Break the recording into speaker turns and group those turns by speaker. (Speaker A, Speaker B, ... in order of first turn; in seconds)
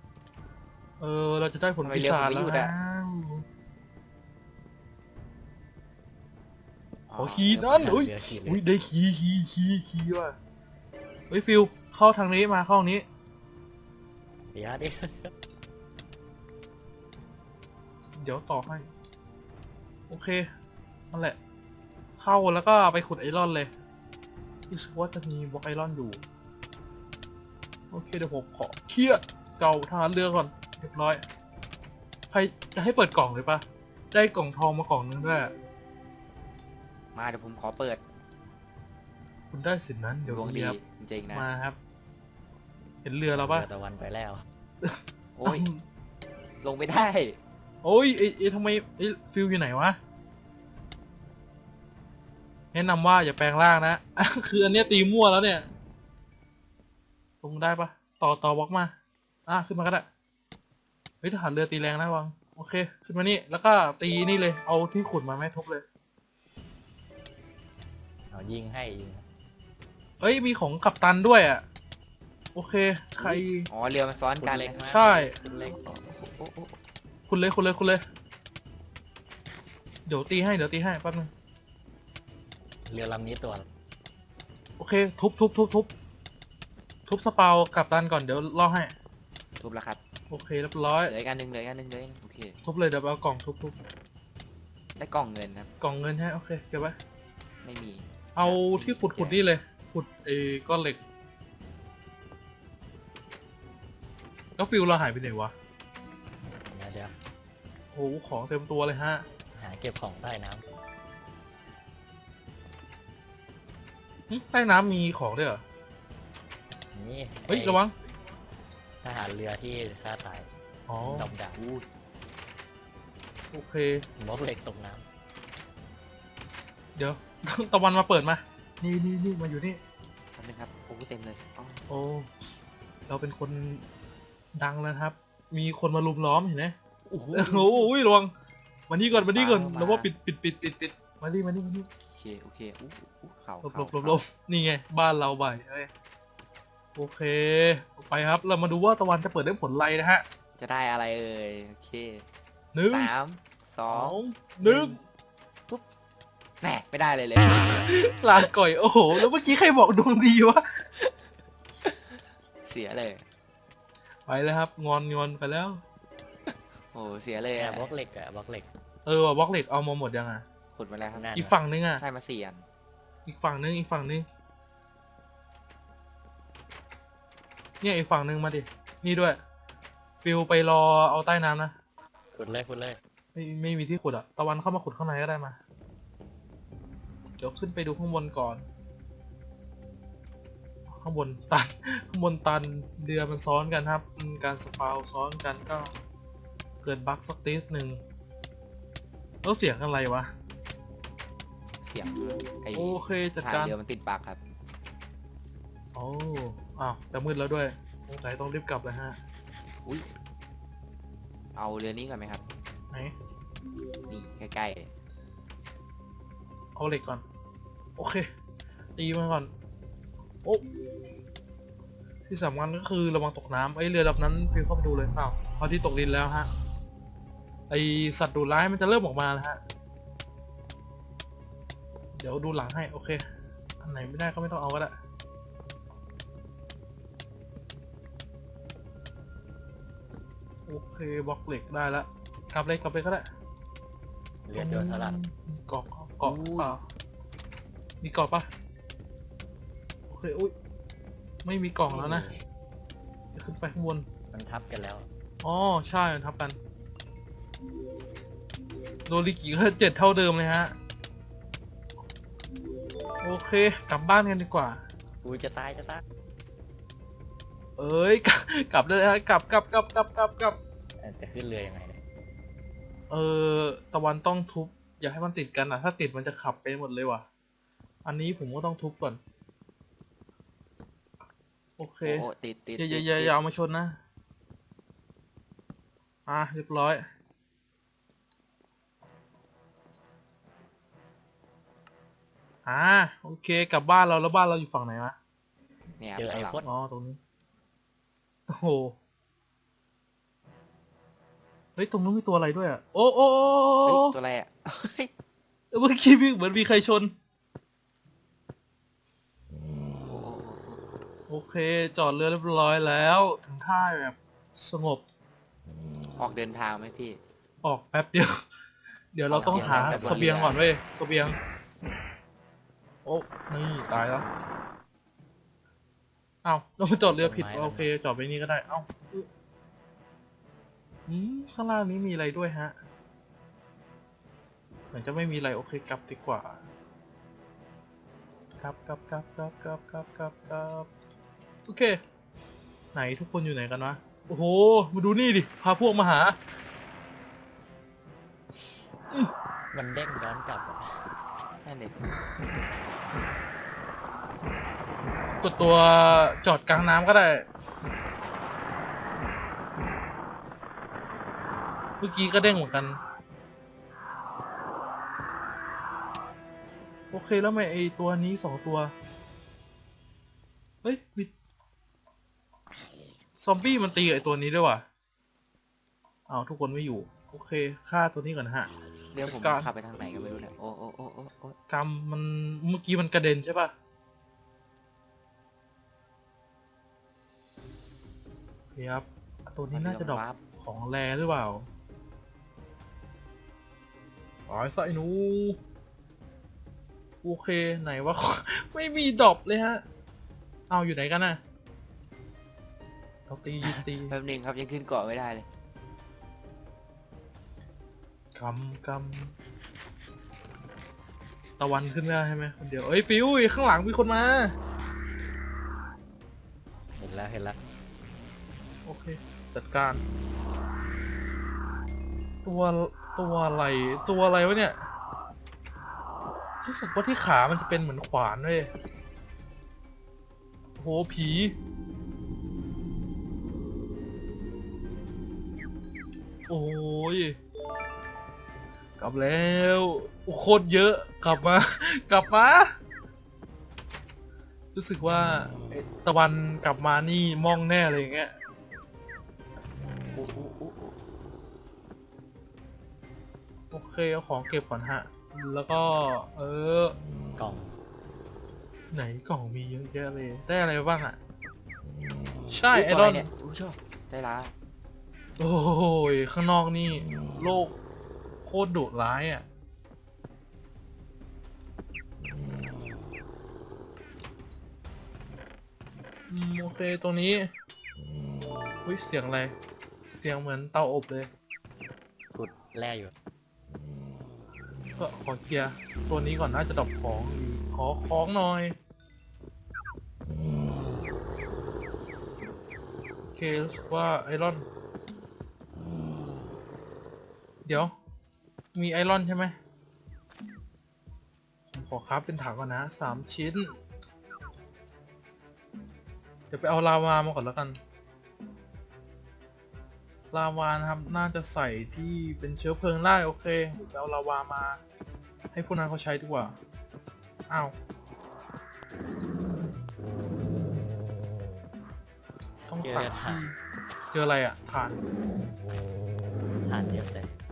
Speaker A: 1.0-3.4, 7.1-10.3, 11.3-13.0, 18.2-18.9, 20.1-20.5, 21.1-21.4, 22.2-23.7, 24.7-26.2, 27.9-31.2, 32.3-35.5, 39.5-40.8, 41.3-41.8, 43.0-43.7, 44.8-45.8, 47.8-50.0, 52.7-55.7, 57.4-58.9, 59.5-60.1, 61.2-65.8, 70.2-71.6, 72.5-73.7, 74.9-75.3, 77.3-78.0, 80.1-81.3, 84.8-85.9, 87.1-88.9, 90.3-91.1, 92.6-93.8, 95.8-97.0, 98.3-101.0, 104.6-105.5, 107.9-109.2, 114.3-115.6, 117.5-117.9, 120.9-121.3, 123.5-124.0, 127.0-129.8, 131.9-132.3, 133.1-133.8, 134.5-136.7, 137.3-138.3, 138.9-141.9, 143.6-145.9, 146.9-150.2, 152.7-153.1, 153.9-155.0, 157.8-160.6, 164.3-165.8, 169.1-170.4, 171.3-172.0, 173.2-174.2, 177.8-179.4, 180.2-181.7, 183.3-185.6, 187.4-188.6, 190.9-195.9, 196.8-198.0, 199.4-200.3, 202.7-203.7, 205.9-209.2, 216.8-217.2, 218.0-218.3, 219.0-219.5, 222.3-226.5, 227.7-229.6, 232.2-233.2, 233.8-234.9, 240.7-243.2, 244.6-246.8, 248.0-248.5, 250.1-250.5, 251.4-252.3, 253.3-254.1, 255.4-256.6, 259.1-260.7, 263.2-264.8, 267.8-270.6, 273.1-277.2, 278.0-279.2, 281.8-282.2, 282.8-284.0, 286.3-287.0, 292.6-295.1, 296.6-297.2, 298.5-298.9, 301.8-304.1, 305.7-307.1, 311.3-315.0, 317.6-318.4, 319.1-321.4, 323.0-324.2, 326.4-329.3, 331.1-332.7, 334.9-336.6, 338.6-340.9, 341.7-342.0, 342.9-346.4, 355.4-357.4, 362.0-363.0, 367.1-368.9, 370.8-371.3, 373.4-374.8, 376.3-378.7, 379.4-379.7, 381.7-383.7, 388.8-391.7, 394.5-395.6, 397.2-399.8, 400.7-401.4, 403.3-404.1, 408.3-409.3, 411.6-414.5, 418.9-420.0, 422.4-424.8, 426.6-428.7, 430.8-431.5, 436.5-437.4, 439.0-442.7, 444.7-448.3, 453.7-457.0, 458.9-461.2, 462.5-463.3, 465.4-467.7, 468.4-469.4, 476.3-477.5, 478.8-479.5, 480.1-481.3, 485.0-488.8, 493.4-494.6, 497.6-497.9, 498.7-499.5, 501.7-503.8, 506.5-507.8, 510.3-514.8, 515.5-516.5, 517.5-517.7, 522.7-523.5, 524.1-525.0
Speaker B: 1.8-2.7, 7.1-7.9, 37.1-38.0, 40.2-41.5, 45.4-45.7, 46.6-47.4, 73.2-74.9, 75.6-76.8, 89.6-90.0, 91.0-92.6, 95.0-95.7, 97.6-99.4, 121.5-121.8, 130.3-131.8, 137.1-137.9, 139.3-140.1, 142.0-144.2, 150.6-152.2, 152.9-155.0, 156.6-158.4, 161.8-163.3, 166.5-167.9, 170.7-171.3, 172.0-172.6, 201.8-204.4, 211.6-212.4, 214.1-214.9, 246.2-246.8, 282.0-283.4, 296.0-296.6, 303.8-305.1, 310.1-310.8, 316.2-317.2, 319.3-320.6, 351.6-352.0, 379.1-381.6, 389.7-390.4, 403.6-405.5, 450.1-450.9, 462.7-464.5
Speaker C: 7.5-8.6, 14.5-15.3, 43.3-44.4, 68.3-69.2, 74.4-75.7, 82.8-83.7, 106.7-107.1, 109.5-110.6, 116.9-117.8, 119.0-120.5, 121.0-121.6, 124.2-125.0, 167.6-168.7, 171.1-171.6, 182.3-183.0, 244.4-245.2, 251.9-252.4, 254.3-255.1, 265.2-266.0, 271.0-272.0, 296.1-296.7, 319.4-320.6, 327.1-327.9, 349.7-350.9, 416.9-417.6, 457.4-457.7, 482.3-483.1, 522.8-523.4, 526.6-527.3